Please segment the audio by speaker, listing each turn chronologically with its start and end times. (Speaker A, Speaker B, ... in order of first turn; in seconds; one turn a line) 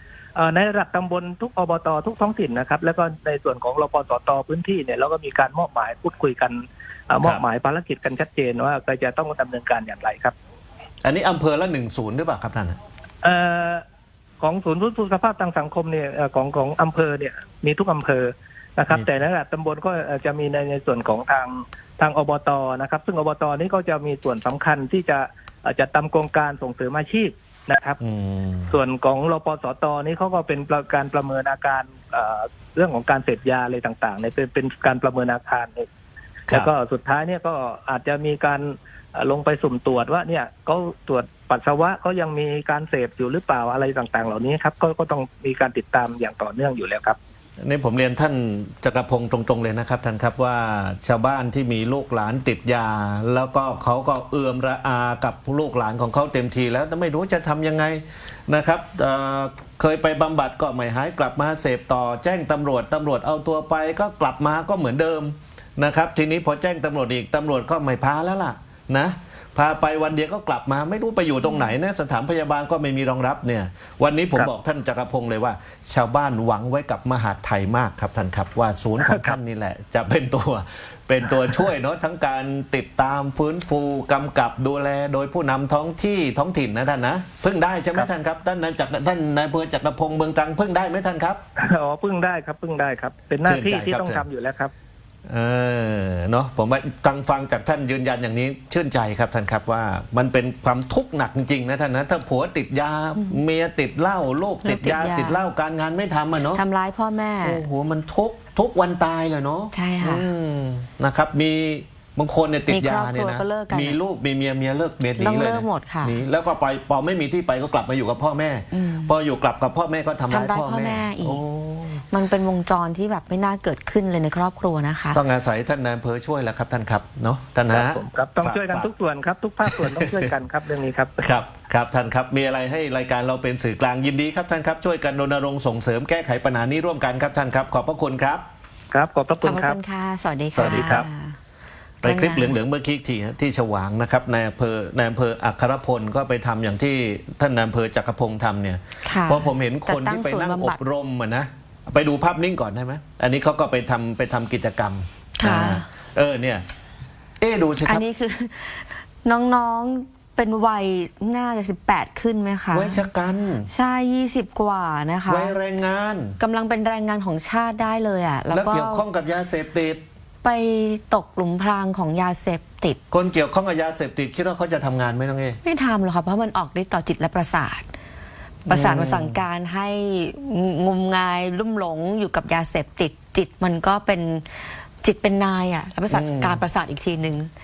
Speaker A: 0.4-10.3
Speaker B: 11.0-12.8
Speaker A: 13.2-13.8
Speaker A: 14.4-28.0
Speaker B: 28.0-28.8
Speaker A: 28.7-35.9
Speaker A: 36.5-47.2
Speaker B: 47.6-91.4
Speaker A: 79.0-79.4
Speaker A: 91.6-94.7
Speaker B: 93.5-94.2
Speaker B: 95.3-106.6
Speaker C: 104.6-105.4
Speaker C: 106.5-107.6
Speaker B: 107.4-122.1
Speaker C: 109.7-110.3
Speaker C: 112.7-114.0
Speaker C: 115.2-116.2
Speaker C: 118.7-119.1
Speaker C: 120.3-121.4
Speaker C: 122.1-125.2
Speaker B: 125.1-128.9
Speaker A: 127.7-131.2
Speaker B: 129.6-130.3
Speaker B: 131.2-138.4
Speaker A: 138.9-139.8
Speaker C: 139.4-141.4
Speaker B: 140.5-141.1
Speaker A: 140.6-141.0
Speaker C: 142.0-142.6
Speaker B: 142.0-156.6
Speaker C: 149.1-150.8
Speaker C: 155.4-155.8
Speaker B: 157.4-158.1
Speaker C: 157.8-163.0
Speaker B: 162.7-163.7
Speaker C: 163.7-165.6
Speaker B: 165.3-166.4
Speaker C: 166.4-169.1
Speaker B: 168.5-170.0
Speaker C: 170.4-173.0
Speaker B: 173.1-175.6
Speaker C: 175.6-177.9
Speaker C: 178.7-184.5
Speaker B: 178.7-179.4
Speaker C: 185.0-187.5
Speaker B: 186.1-186.6